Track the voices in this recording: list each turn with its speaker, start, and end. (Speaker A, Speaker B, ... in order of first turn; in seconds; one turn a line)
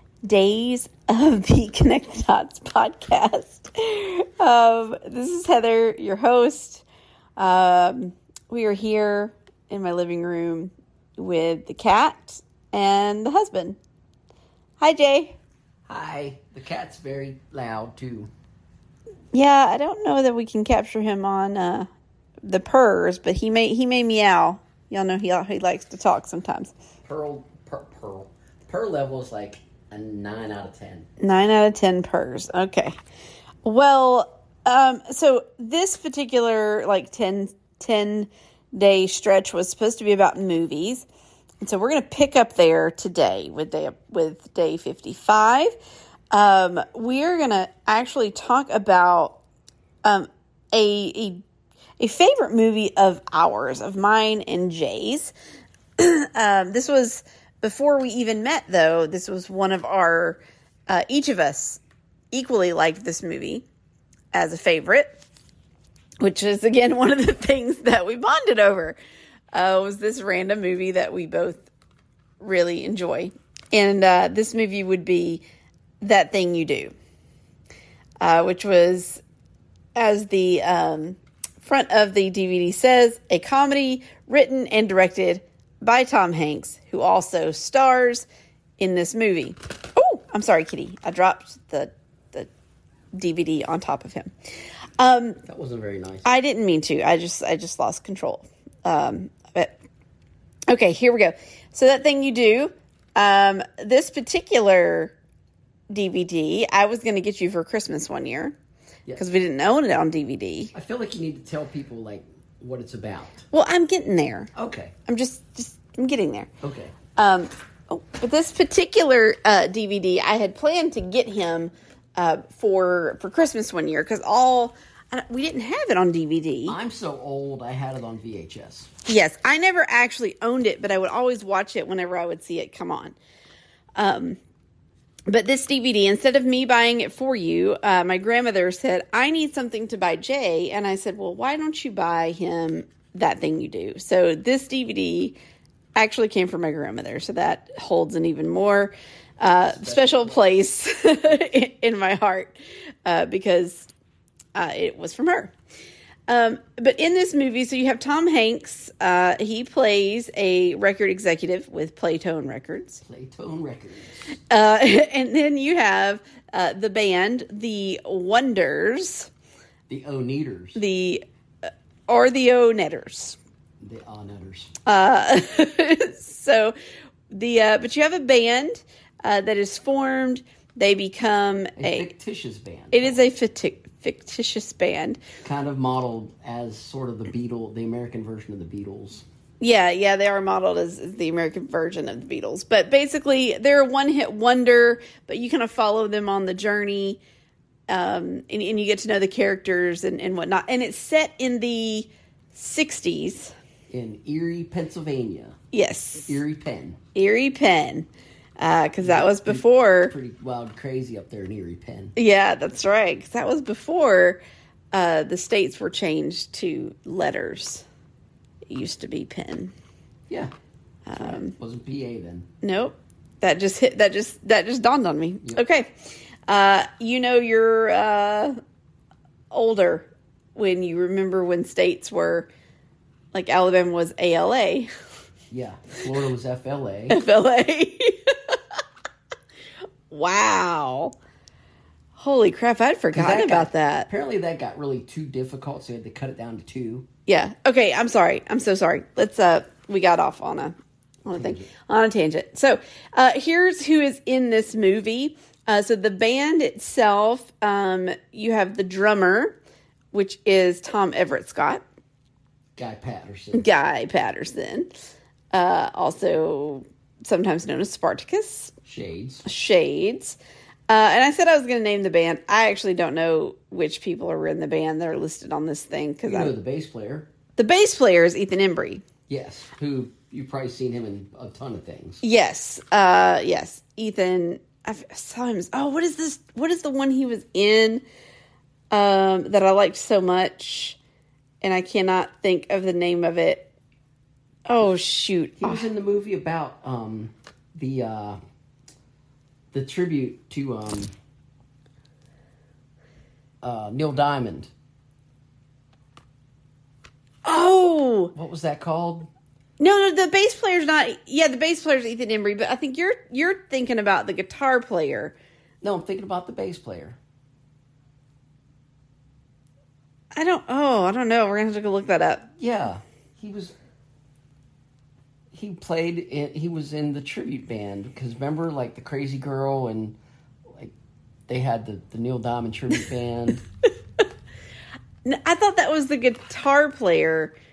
Speaker A: 0.2-6.8
Speaker A: 7.4-13.8
Speaker A: 14.8-15.4
Speaker B: 15.9-18.3
Speaker A: 19.3-21.9
Speaker A: 22.5-26.7
Speaker B: 27.1-31.1
Speaker A: 31.2-33.0
Speaker A: 33.6-41.1
Speaker A: 41.6-45.8
Speaker A: 46.3-49.4
Speaker A: 50.0-51.4
Speaker A: 52.0-55.3
Speaker A: 56.0-61.8
Speaker A: 62.3-63.6
Speaker A: 64.3-65.1
Speaker A: 66.2-69.0
Speaker A: 69.5-71.7
Speaker A: 72.4-75.4
Speaker A: 76.0-76.9
Speaker A: 78.2-79.2
Speaker A: 80.0-88.3
Speaker A: 88.8-92.5
Speaker A: 93.2-94.3
Speaker A: 95.0-95.4
Speaker B: 95.5-96.3
Speaker A: 96.2-99.8
Speaker A: 100.7-105.2
Speaker A: 105.9-108.5
Speaker A: 109.2-110.7
Speaker B: 110.7-113.5
Speaker A: 113.5-114.5
Speaker B: 114.5-114.9
Speaker A: 115.1-116.5
Speaker B: 116.6-117.0
Speaker A: 117.2-126.8
Speaker B: 126.7-128.9
Speaker A: 129.1-133.2
Speaker A: 134.0-134.4
Speaker A: 135.3-145.4
Speaker A: 146.0-153.9
Speaker B: 149.6-150.4
Speaker A: 154.6-155.5
Speaker A: 156.3-163.0
Speaker B: 163.1-164.2
Speaker A: 164.5-169.3
Speaker B: 169.9-170.8
Speaker A: 170.8-173.4
Speaker B: 173.8-174.8
Speaker A: 174.9-176.8
Speaker A: 177.3-182.1
Speaker B: 181.8-183.2
Speaker A: 182.9-185.2
Speaker B: 185.4-189.2
Speaker A: 189.6-197.2
Speaker A: 197.9-203.5
Speaker B: 203.9-205.6
Speaker A: 205.7-206.4
Speaker B: 206.3-207.0
Speaker A: 207.1-208.1
Speaker A: 208.6-210.2
Speaker B: 209.0-212.1
Speaker A: 212.2-214.4
Speaker A: 214.9-217.8
Speaker A: 218.7-219.7
Speaker A: 221.1-221.6
Speaker B: 221.2-222.5
Speaker A: 222.6-225.9
Speaker A: 226.5-228.6
Speaker A: 229.5-232.5
Speaker A: 233.3-234.9
Speaker B: 235.5-237.2
Speaker A: 237.1-238.8
Speaker A: 240.1-241.1
Speaker A: 242.2-244.1
Speaker B: 243.1-247.1
Speaker A: 247.3-259.6
Speaker B: 251.3-251.7
Speaker A: 260.1-261.8
Speaker B: 262.8-263.7
Speaker A: 263.5-264.9
Speaker A: 265.5-268.7
Speaker B: 268.9-269.4
Speaker A: 269.4-270.4
Speaker A: 270.9-276.5
Speaker B: 276.3-277.3
Speaker A: 277.6-279.1
Speaker B: 279.3-282.2
Speaker A: 282.2-288.0
Speaker A: 288.9-291.0
Speaker A: 291.6-293.7
Speaker A: 294.7-295.9
Speaker B: 295.6-298.4
Speaker B: 299.7-301.1
Speaker B: 303.6-304.7
Speaker A: 307.4-308.3
Speaker B: 308.4-309.3
Speaker A: 309.8-315.4
Speaker B: 315.8-317.2
Speaker A: 320.3-322.5
Speaker B: 322.6-323.8
Speaker B: 325.5-330.2
Speaker B: 331.5-333.6
Speaker A: 335.2-337.6